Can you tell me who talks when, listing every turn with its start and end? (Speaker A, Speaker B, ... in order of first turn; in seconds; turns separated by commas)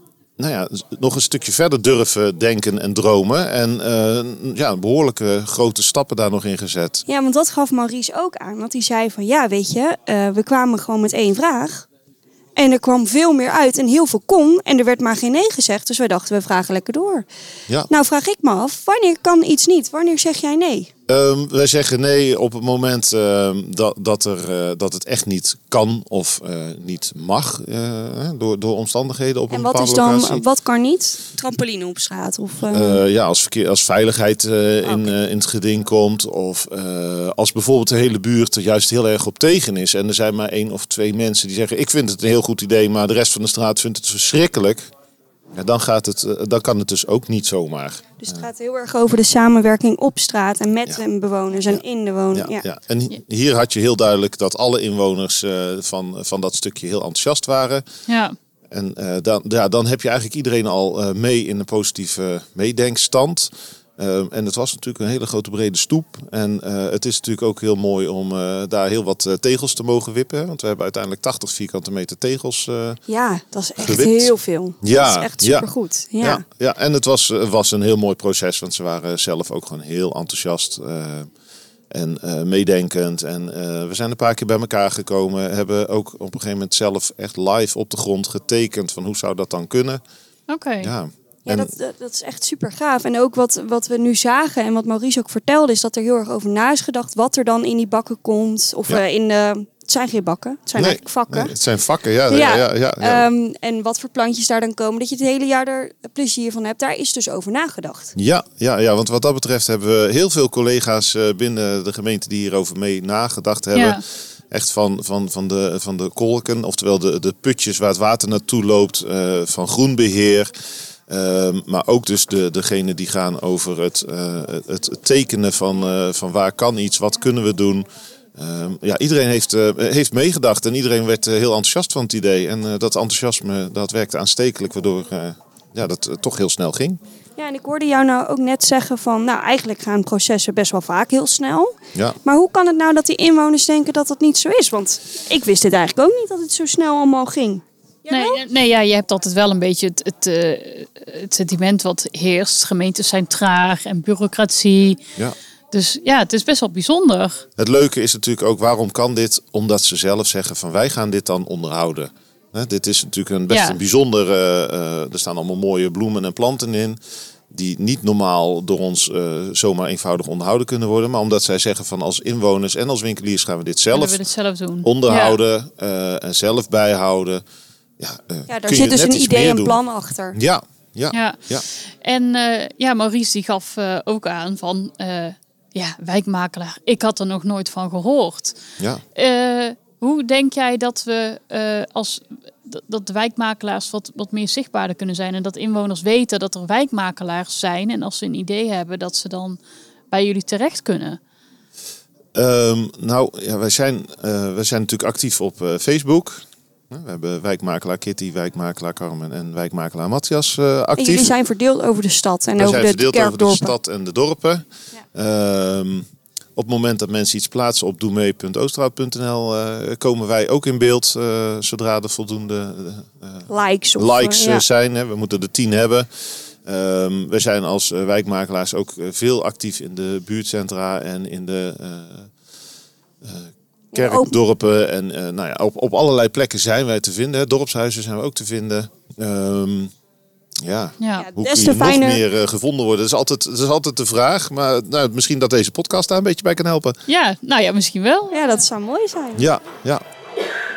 Speaker A: 0.4-7.0, Speaker B: 7.1-11.8, Speaker B: 12.6-17.3, Speaker B: 17.9-20.9, Speaker A: 21.1-30.4, Speaker B: 29.5-33.0, Speaker A: 32.7-44.9, Speaker B: 34.8-35.1, Speaker A: 45.5-48.4, Speaker B: 48.2-52.6, Speaker A: 51.7-57.8, Speaker C: 58.1-58.3, Speaker A: 58.7-73.0, Speaker B: 73.1-76.4, Speaker A: 73.8-81.3, Speaker A: 81.9-90.0, Speaker C: 90.5-90.9, Speaker A: 90.8-91.7, Speaker B: 91.5-101.5, Speaker A: 100.8-103.3, Speaker B: 102.3-108.1, Speaker A: 108.2-120.5, Speaker C: 113.7-114.0, Speaker A: 121.1-137.0, Speaker B: 137.4-148.4, Speaker C: 148.1-155.0, Speaker C: 155.7-157.4, Speaker A: 157.6-167.0, Speaker C: 163.5-163.8, Speaker A: 167.5-174.2, Speaker C: 173.9-175.4, Speaker A: 174.8-177.4, Speaker A: 178.0-179.8, Speaker B: 178.5-180.4, Speaker A: 180.3-181.7, Speaker C: 181.1-188.6, Speaker C: 189.1-201.2, Speaker A: 202.3-211.3, Speaker B: 211.0-213.7, Speaker A: 212.6-216.0, Speaker A: 216.6-226.1, Speaker B: 223.5-224.6, Speaker A: 226.6-232.3, Speaker A: 233.2-239.9, Speaker B: 233.9-234.3, Speaker A: 240.6-247.0, Speaker C: 241.0-241.3, Speaker B: 241.2-242.2, Speaker C: 247.1-248.6, Speaker B: 248.3-249.4, Speaker A: 249.3-250.0